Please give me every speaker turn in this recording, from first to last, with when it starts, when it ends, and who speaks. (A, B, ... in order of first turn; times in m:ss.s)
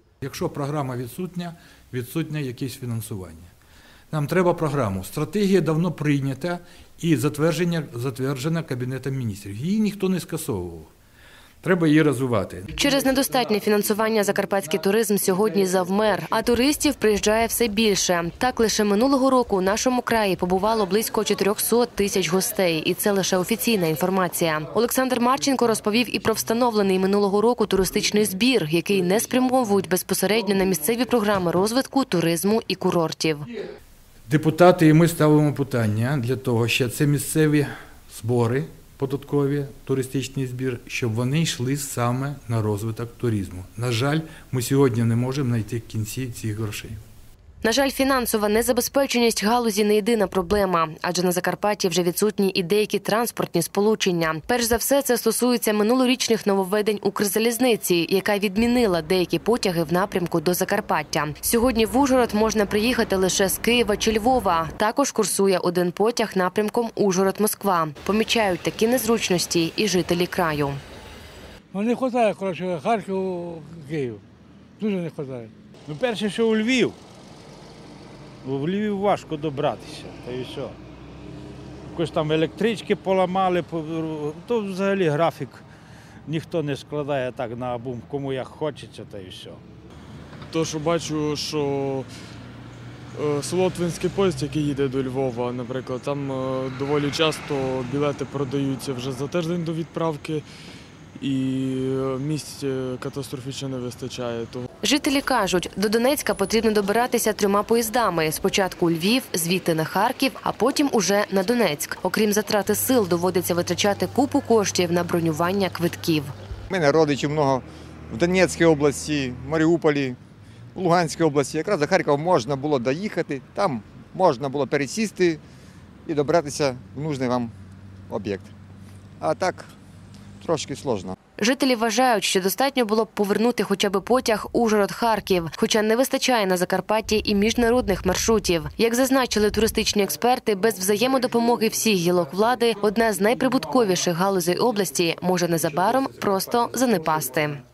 0:00.2-0:03.5 A
0:04.1-0:10.9 A
0:11.6-0:12.7 A
0:12.7-0:33.5 B
0:34.3-0:47.0 A
0:47.6-1:10.8 B
1:11.7-1:14.2 C
1:14.8-1:15.5 C
1:15.9-1:17.0 D
1:18.4-1:20.8 D
1:21.9-1:25.6 D
1:26.3-1:29.6 D
1:30.5-1:32.1 E
1:33.1-1:40.4 E
1:41.2-1:44.7 E
1:44.8-1:56.3 B
1:56.7-2:00.2 F
2:00.7-2:05.4 F
2:06.0-2:07.5 F
2:08.1-2:08.5 F
2:09.2-2:09.7 F
2:10.4-2:11.1 F
2:11.4-2:27.6 B